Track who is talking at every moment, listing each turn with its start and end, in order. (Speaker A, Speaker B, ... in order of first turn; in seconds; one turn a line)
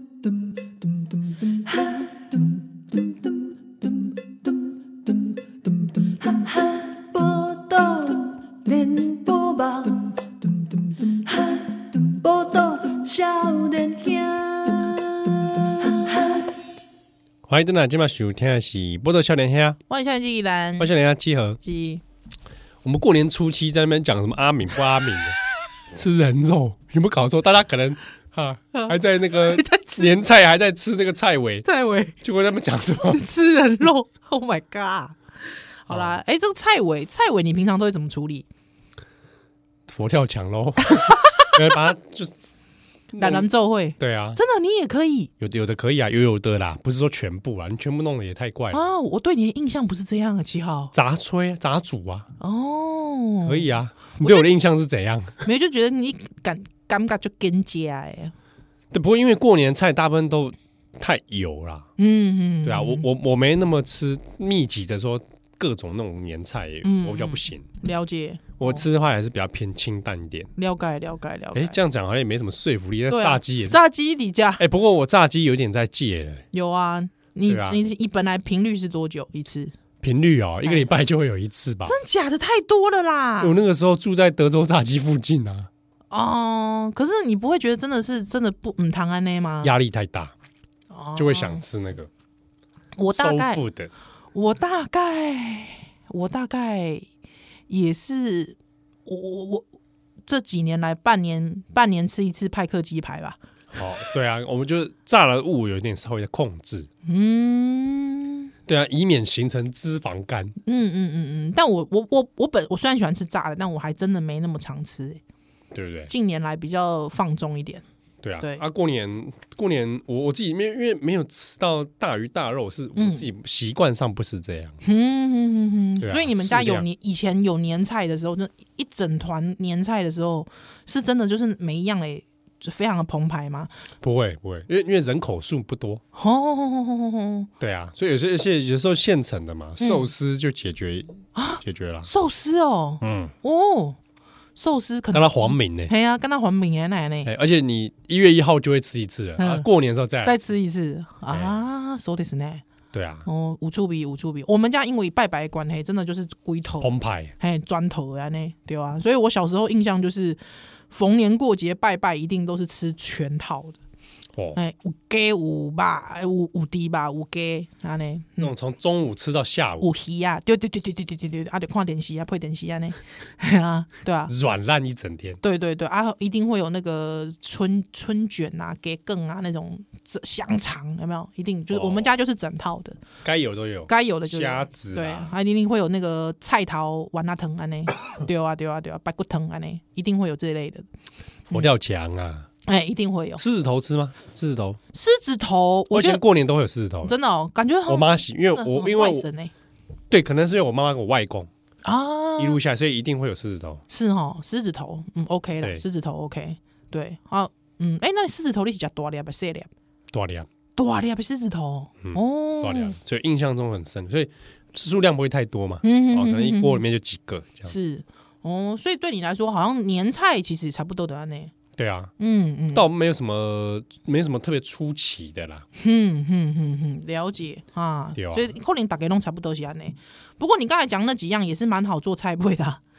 Speaker A: 0.3-16.4
Speaker B: 17.5-19.8
Speaker C: 19.9-20.9
Speaker B: 20.8-21.6
Speaker C: 21.6-22.0
Speaker B: 22.8-25.4
Speaker B: 25.9-31.6
Speaker C: 28.7-30.2
Speaker C: 31.6-32.2
Speaker B: 32.2-33.2
Speaker C: 33.1-35.2
Speaker C: 35.8-38.5
Speaker B: 35.9-36.1
Speaker B: 39.9-42.3
Speaker C: 40.8-41.9
Speaker B: 43.1-43.5
Speaker C: 43.1-45.3
Speaker B: 44.0-44.4
Speaker B: 45.4-48.9
Speaker C: 48.7-50.9
Speaker B: 50.9-52.3
Speaker C: 52.4-54.5
Speaker B: 53.4-55.4
Speaker C: 55.4-58.3
Speaker B: 58.9-61.9
Speaker C: 62.0-63.0
Speaker B: 62.6-67.7
Speaker C: 66.8-68.8
Speaker B: 68.6-70.5
Speaker C: 70.6-71.8
Speaker B: 71.5-73.8
Speaker C: 73.1-74.6
Speaker B: 74.6-76.4
Speaker C: 76.5-79.7
Speaker B: 77.5-77.8
Speaker B: 80.0-82.0
Speaker C: 81.8-83.6
Speaker B: 83.4-85.7
Speaker C: 86.1-89.7
Speaker B: 89.6-90.3
Speaker C: 90.9-91.6
Speaker B: 91.2-92.1
Speaker C: 93.0-93.6
Speaker B: 93.1-93.9
Speaker C: 94.3-97.1
Speaker C: 97.7-99.7
Speaker C: 100.3-103.4
Speaker B: 103.7-106.9
Speaker C: 107.0-108.5
Speaker B: 108.7-110.5
Speaker C: 110.6-115.2
Speaker B: 115.7-116.1
Speaker C: 116.1-117.8
Speaker B: 118.2-124.8
Speaker C: 122.9-123.2
Speaker C: 124.8-133.7
Speaker B: 126.0-126.8
Speaker B: 134.0-136.0
Speaker C: 136.1-137.5
Speaker B: 137.6-142.1
Speaker C: 139.8-140.1
Speaker C: 141.3-144.0
Speaker B: 143.0-143.3
Speaker C: 144.6-147.3
Speaker B: 145.1-145.9
Speaker B: 147.2-150.4
Speaker C: 149.4-149.7
Speaker C: 150.2-152.6
Speaker B: 151.3-151.5
Speaker B: 152.9-153.3
Speaker C: 153.2-160.4
Speaker B: 156.8-157.3
Speaker C: 160.9-163.8
Speaker C: 164.5-168.5
Speaker B: 168.4-169.9
Speaker C: 169.8-174.3
Speaker B: 174.3-175.4
Speaker C: 175.4-183.0
Speaker B: 181.7-182.1
Speaker B: 183.2-185.3
Speaker C: 183.9-190.8
Speaker B: 191.5-192.5
Speaker C: 192.6-193.4
Speaker B: 193.4-194.8
Speaker C: 194.9-196.2
Speaker B: 195.9-197.1
Speaker C: 197.0-199.5
Speaker B: 197.9-199.3
Speaker B: 200.1-201.5
Speaker C: 201.8-202.6
Speaker B: 202.4-203.8
Speaker C: 203.9-209.7
Speaker B: 210.1-210.5
Speaker C: 210.8-212.9
Speaker B: 212.0-217.7
Speaker C: 215.8-216.8
Speaker C: 217.7-221.5
Speaker B: 221.8-222.1
Speaker C: 222.2-222.9
Speaker B: 222.7-225.6
Speaker C: 225.8-232.8
Speaker B: 228.2-228.5